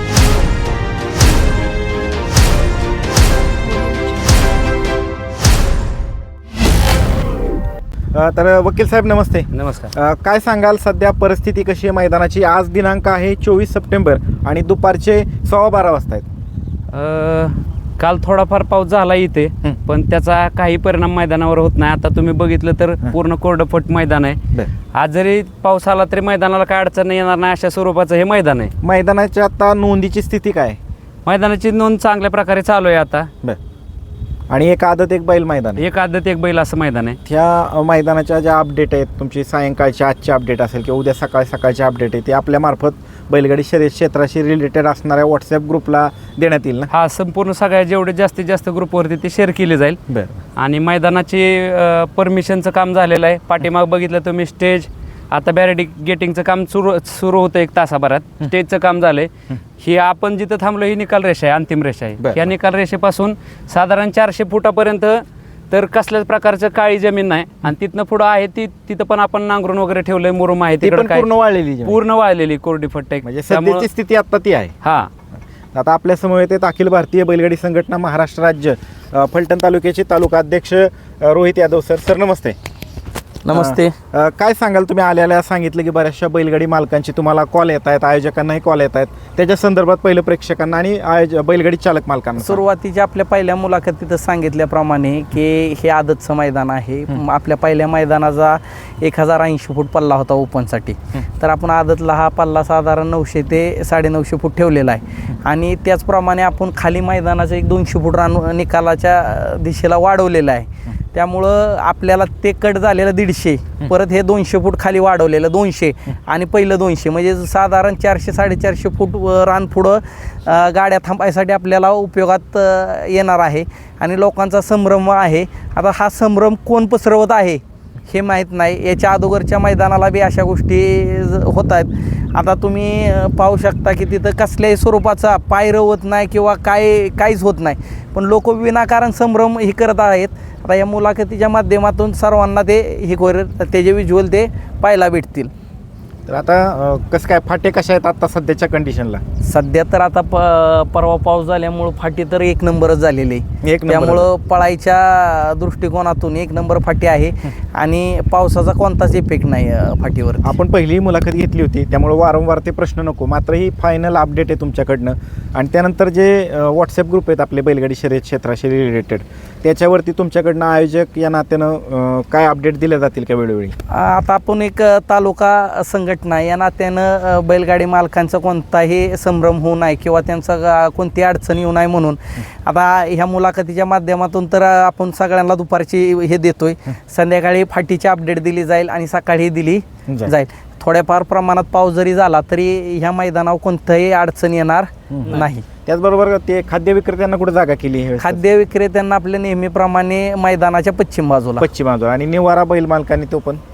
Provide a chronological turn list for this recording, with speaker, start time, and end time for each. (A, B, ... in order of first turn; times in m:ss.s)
0:08.1-0:16.2 A
0:09.5-0:09.9 B
0:16.9-0:24.4 B
0:24.9-0:28.7 B
0:28.8-0:30.8 A
0:31.2-0:33.3 B
0:34.5-0:35.8 A
0:35.8-0:37.2 B
0:37.2-0:46.9 A
0:46.9-0:50.0 B
0:50.1-0:50.4 A
0:50.6-1:11.3 B
1:02.2-1:02.5 A
1:10.8-1:12.0 A
1:11.8-1:13.9 B
1:13.2-1:14.7 A
1:14.8-1:15.1 B
1:15.7-1:22.6 A
1:23.4-1:24.0 C
1:23.5-1:32.6 A
1:32.4-2:25.5 C
2:26.3-2:29.2 A
2:29.4-2:40.6 C
2:33.6-2:34.3 A
2:40.4-2:53.8 A
2:53.9-3:15.6 C
3:10.1-3:10.3 A
3:15.1-3:18.4 A
3:18.2-3:21.6 C
3:21.6-3:23.6 A